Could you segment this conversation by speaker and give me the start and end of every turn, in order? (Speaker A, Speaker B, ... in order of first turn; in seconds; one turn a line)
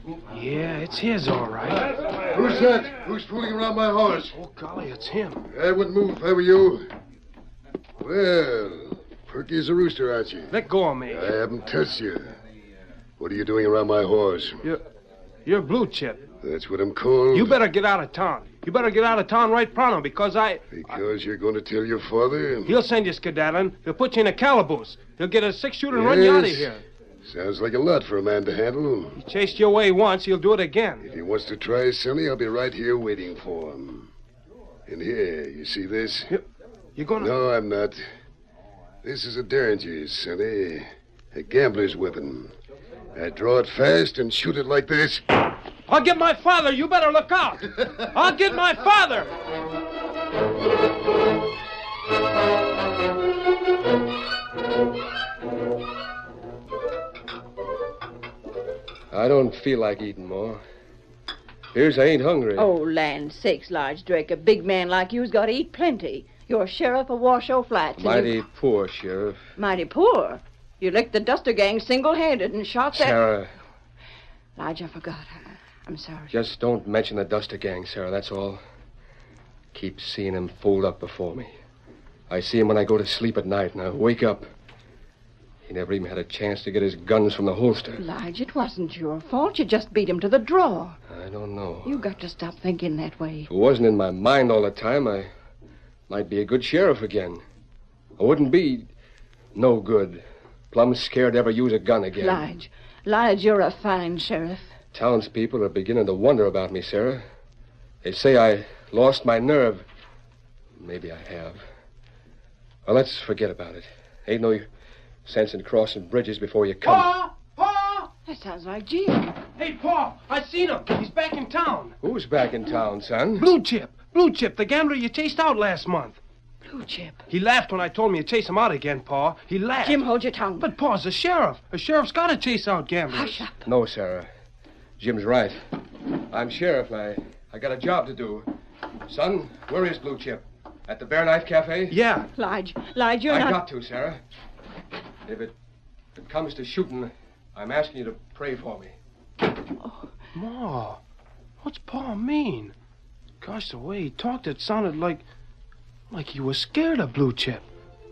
Speaker A: 0.3-1.9
Speaker B: 2.3-4.4
Speaker A: 4.3-5.5
Speaker B: 5.5-6.9
Speaker B: 8.0-12.3
Speaker A: 10.5-11.3
Speaker B: 13.2-14.6
Speaker A: 15.4-16.2
Speaker B: 16.4-17.6
Speaker A: 17.3-21.0
Speaker B: 20.7-22.8
Speaker A: 22.7-26.8
Speaker B: 25.9-29.2
Speaker A: 29.2-31.1
Speaker B: 31.1-34.1
Speaker B: 34.9-36.3
Speaker A: 37.0-37.3
Speaker B: 37.2-38.0
Speaker B: 39.0-42.5
Speaker B: 43.1-45.2
Speaker A: 45.9-49.3
Speaker C: 59.1-60.6
Speaker C: 61.7-62.7
Speaker D: 62.6-68.3
Speaker C: 68.0-69.5
Speaker D: 69.6-73.2
Speaker C: 72.9-73.5
Speaker D: 74.6-76.3
Speaker C: 76.3-78.6
Speaker C: 79.7-81.5
Speaker C: 82.3-84.5
Speaker C: 85.7-88.0
Speaker D: 88.0-91.0
Speaker C: 91.1-92.0
Speaker D: 91.8-93.5
Speaker C: 93.5-95.3
Speaker C: 96.1-97.4
Speaker C: 98.2-98.9
Speaker C: 99.5-102.4
Speaker D: 102.2-104.7
Speaker C: 104.9-107.2
Speaker C: 108.0-109.8
Speaker C: 110.8-111.6
Speaker C: 112.9-114.7
Speaker C: 115.2-117.1
Speaker A: 116.8-118.1
Speaker D: 118.3-119.4
Speaker A: 119.6-122.0
Speaker C: 122.0-123.5
Speaker A: 123.4-126.2
Speaker D: 126.7-127.2
Speaker A: 127.3-130.0
Speaker D: 129.8-130.7
Speaker A: 130.6-133.5
Speaker D: 133.1-133.6
Speaker C: 133.7-134.3
Speaker C: 135.0-135.6
Speaker C: 136.3-138.5
Speaker C: 139.1-142.0
Speaker A: 141.9-142.3
Speaker D: 142.3-143.6
Speaker C: 143.3-144.2
Speaker C: 145.3-145.5
Speaker C: 146.2-149.0
Speaker D: 149.8-150.1
Speaker A: 150.3-151.0
Speaker A: 151.6-152.7
Speaker A: 153.4-155.2
Speaker A: 156.1-157.7